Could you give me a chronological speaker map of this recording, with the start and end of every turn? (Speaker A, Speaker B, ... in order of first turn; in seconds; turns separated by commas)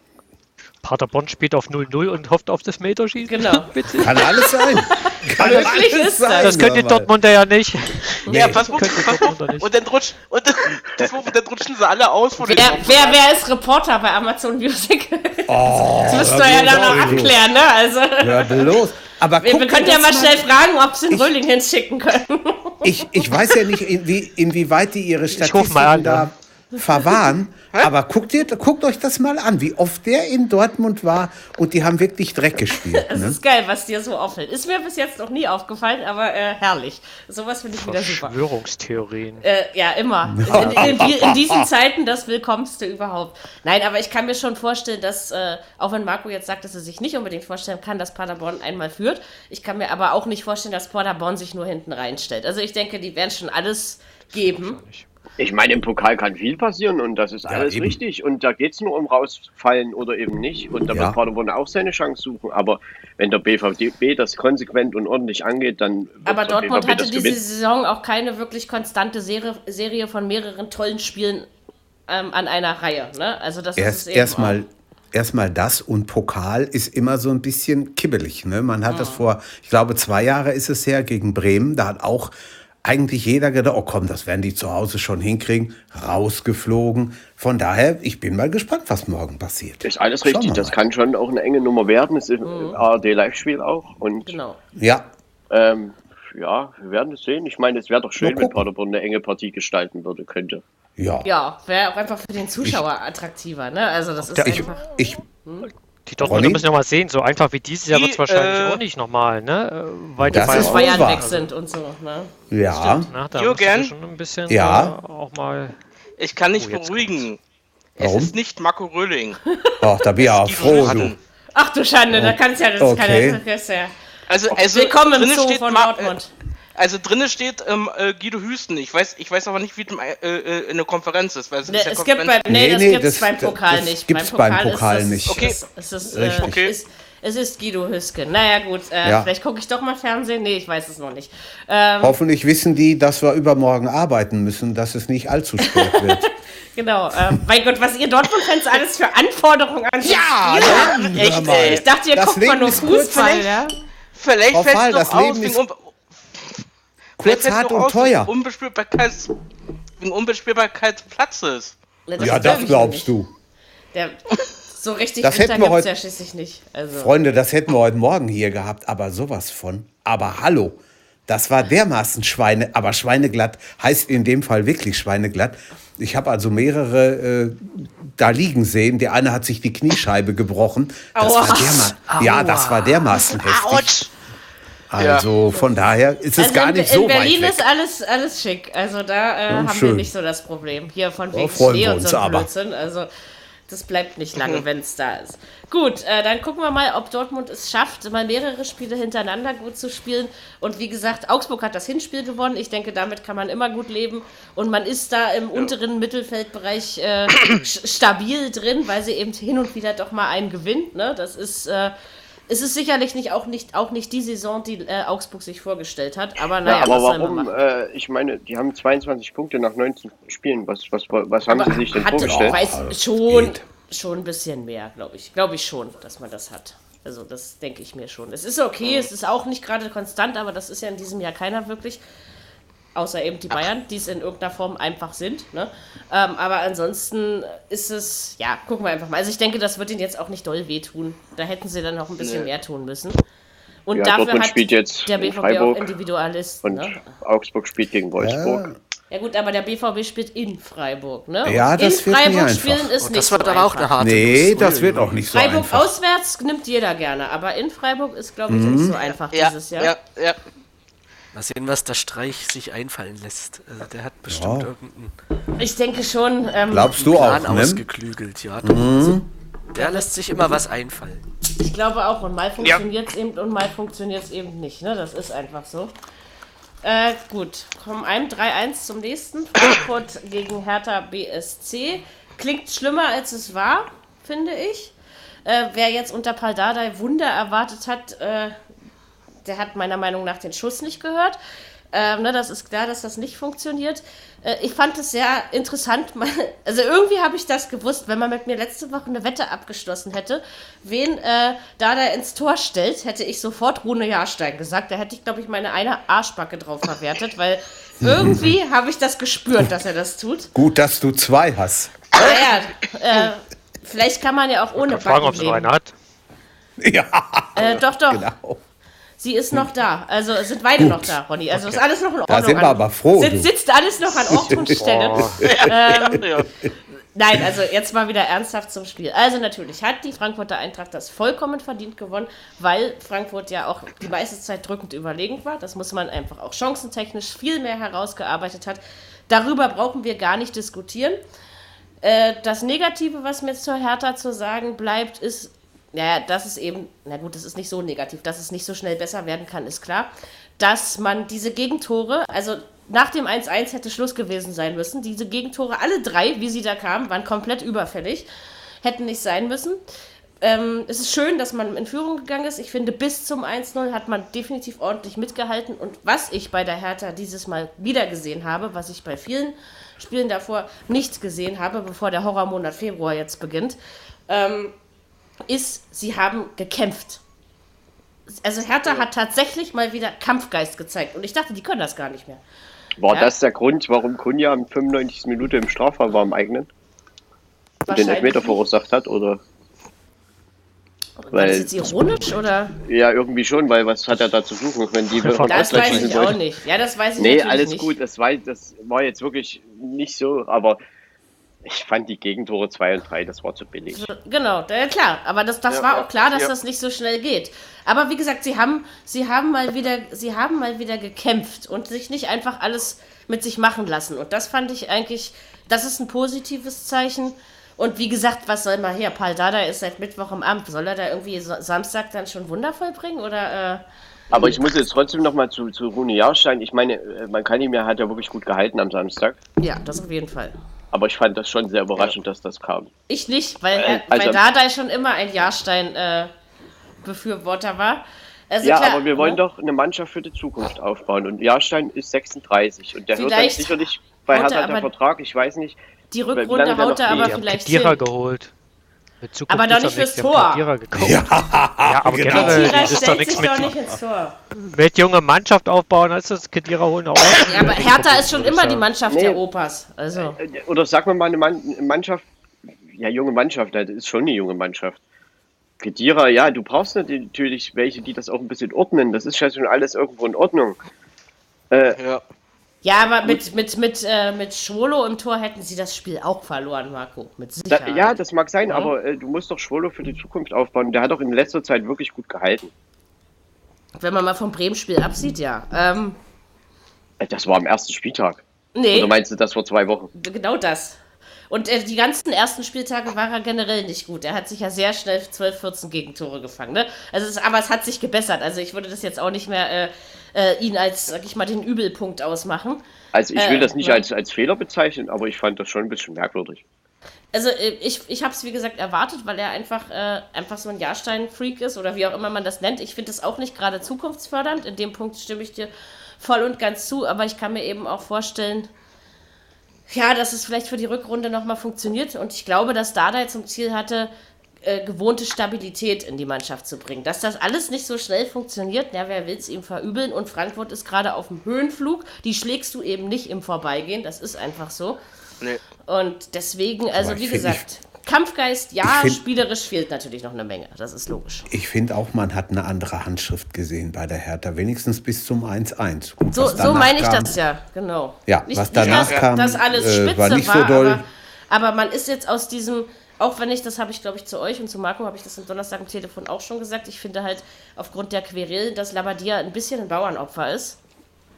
Speaker A: 0.8-4.5, Speaker B: 3.2-6.5, Speaker C: 4.0-7.1, Speaker A: 6.4-9.7, Speaker C: 8.3-8.7, Speaker D: 8.3-13.2, Speaker B: 12.5-18.8, Speaker C: 15.5-17.4, Speaker A: 16.2-17.2, Speaker C: 18.2-20.5, Speaker B: 19.4-23.4, Speaker C: 21.1-21.3, Speaker C: 22.8-33.4, Speaker A: 25.3-26.3, Speaker B: 33.0-38.3, Speaker A: 37.7-39.4, Speaker B: 39.4-54.8, Speaker C: 40.4-41.6, Speaker A: 54.3-55.1, Speaker E: 55.4-67.4, Speaker C: 57.5-58.0, Speaker C: 60.9-61.2, Speaker B: 66.2-71.5, Speaker B: 72.1-74.5, Speaker C: 73.8-90.8, Speaker B: 78.9-79.2, Speaker E: 89.8-94.4, Speaker B: 92.4-92.8, Speaker B: 94.2-94.6, Speaker C: 94.8-95.1, Speaker E: 95.5-100.6, Speaker C: 98.2-98.7, Speaker C: 101.0-101.3, Speaker B: 101.2-104.7, Speaker C: 104.3-105.2, Speaker A: 104.5-104.8, Speaker A: 106.0-111.5, Speaker C: 106.2-106.7, Speaker D: 107.9-108.8, Speaker C: 110.2-111.2, Speaker E: 110.3-110.8, Speaker B: 110.4-112.3, Speaker C: 112.5-113.1, Speaker A: 112.7-115.8, Speaker D: 113.4-113.9, Speaker C: 114.5-114.9, Speaker D: 116.2-117.4, Speaker A: 116.5-117.3, Speaker D: 118.0-119.4, Speaker C: 118.0-118.3, Speaker C: 119.8-121.1, Speaker D: 120.2-121.2, Speaker F: 120.6-121.1, Speaker B: 121.5-123.9, Speaker C: 122.1-123.4, Speaker D: 124.3-126.1, Speaker B: 124.5-126.3, Speaker D: 126.8-132.4, Speaker B: 131.7-142.2, Speaker C: 132.5-135.5, Speaker D: 135.3-135.6, Speaker C: 136.1-136.6, Speaker D: 136.4-136.7, Speaker C: 139.0-139.3, Speaker C: 142.0-146.3, Speaker B: 145.6-153.8, Speaker C: 150.0-153.5, Speaker D: 150.7-151.8, Speaker D: 152.7-153.4, Speaker D: 154.2-155.8, Speaker C: 154.5-155.6, Speaker D: 157.2-159.3, Speaker C: 157.2-158.3, Speaker D: 160.0-161.7, Speaker B: 162.1-163.1, Speaker C: 162.2-163.3, Speaker B: 164.7-167.1, Speaker C: 165.2-165.9, Speaker C: 166.9-184.0, Speaker B: 181.1-181.9, Speaker F: 182.0-183.2, Speaker D: 183.3-184.1, Speaker C: 184.9-187.6, Speaker D: 185.0-185.2, Speaker B: 185.5-185.8, Speaker B: 186.4-193.1, Speaker C: 189.5-190.1, Speaker C: 191.3-192.5, Speaker B: 193.7-211.9, Speaker D: 194.4-194.6, Speaker B: 212.5-217.6, Speaker E: 216.6-222.6, Speaker B: 221.5-232.0, Speaker C: 221.9-223.6, Speaker D: 228.8-229.1, Speaker B: 232.9-243.2, Speaker D: 242.2-242.5, Speaker B: 243.9-247.0, Speaker E: 243.9-245.9, Speaker E: 246.6-248.6, Speaker C: 248.2-248.8, Speaker B: 249.1-253.9, Speaker C: 251.4-252.9, Speaker F: 253.0-255.2, Speaker C: 254.0-255.9, Speaker B: 255.3-259.9, Speaker C: 258.5-259.0, Speaker D: 259.3-260.4, Speaker F: 261.3-265.1, Speaker C: 264.3-264.7, Speaker B: 265.6-267.0, Speaker C: 266.7-267.8, Speaker F: 266.9-269.2, Speaker C: 268.6-269.3, Speaker F: 269.7-271.2, Speaker B: 269.8-270.1, Speaker B: 271.6-275.9, Speaker B: 276.8-288.6, Speaker B: 289.4-291.4, Speaker B: 291.9-310.5, Speaker C: 308.0-308.6, Speaker C: 310.5-312.0, Speaker B: 312.1-315.7, Speaker A: 314.8-315.9, Speaker C: 316.8-318.6, Speaker B: 317.5-318.3, Speaker B: 319.2-326.2, Speaker C: 320.8-321.1, Speaker A: 321.5-321.8, Speaker C: 322.3-323.5, Speaker C: 324.1-326.4, Speaker A: 324.7-325.5, Speaker D: 325.4-326.5, Speaker B: 327.1-341.2, Speaker B: 342.0-358.3, Speaker B: 358.8-359.8, Speaker B: 360.4-374.7, Speaker B: 375.5-377.2, Speaker B: 378.3-382.4, Speaker E: 383.0-386.7, Speaker B: 387.9-388.6, Speaker E: 387.9-389.4, Speaker B: 391.2-392.7, Speaker E: 391.3-391.7, Speaker A: 391.9-392.4, Speaker E: 392.8-396.4, Speaker A: 395.1-396.4, Speaker B: 395.4-397.9, Speaker E: 397.2-400.8, Speaker E: 401.6-404.1, Speaker B: 403.9-423.8, Speaker D: 405.7-406.5, Speaker E: 424.3-429.4, Speaker B: 424.3-424.7, Speaker B: 429.6-430.6, Speaker E: 430.9-432.9, Speaker B: 433.1-436.3, Speaker E: 433.7-434.4, Speaker B: 437.0-439.4, Speaker E: 438.6-445.8, Speaker B: 443.1-444.9, Speaker B: 446.1-448.0, Speaker E: 446.3-447.3, Speaker A: 447.1-448.5, Speaker A: 449.2-453.8, Speaker B: 449.5-450.6, Speaker C: 450.9-453.8, Speaker B: 452.3-454.3, Speaker A: 454.5-458.9, Speaker B: 457.4-460.4, Speaker E: 459.1-459.4, Speaker E: 460.1-462.2, Speaker E: 462.9-465.0, Speaker E: 465.8-470.8, Speaker E: 471.7-472.0, Speaker D: 472.0-472.2, Speaker B: 472.8-478.9, Speaker E: 477.7-482.7, Speaker B: 484.0-486.2, Speaker E: 487.2-490.1, Speaker B: 488.7-489.1, Speaker B: 490.1-491.0, Speaker B: 491.5-502.8, Speaker E: 503.1-506.6, Speaker B: 503.3-504.0, Speaker B: 507.3-518.7, Speaker B: 519.9-524.1, Speaker B: 524.6-535.0, Speaker B: 535.8-541.5, Speaker C: 536.9-537.6, Speaker C: 538.8-539.2, Speaker C: 541.5-547.3, Speaker B: 546.3-560.8, Speaker C: 548.3-551.0, Speaker D: 548.8-549.3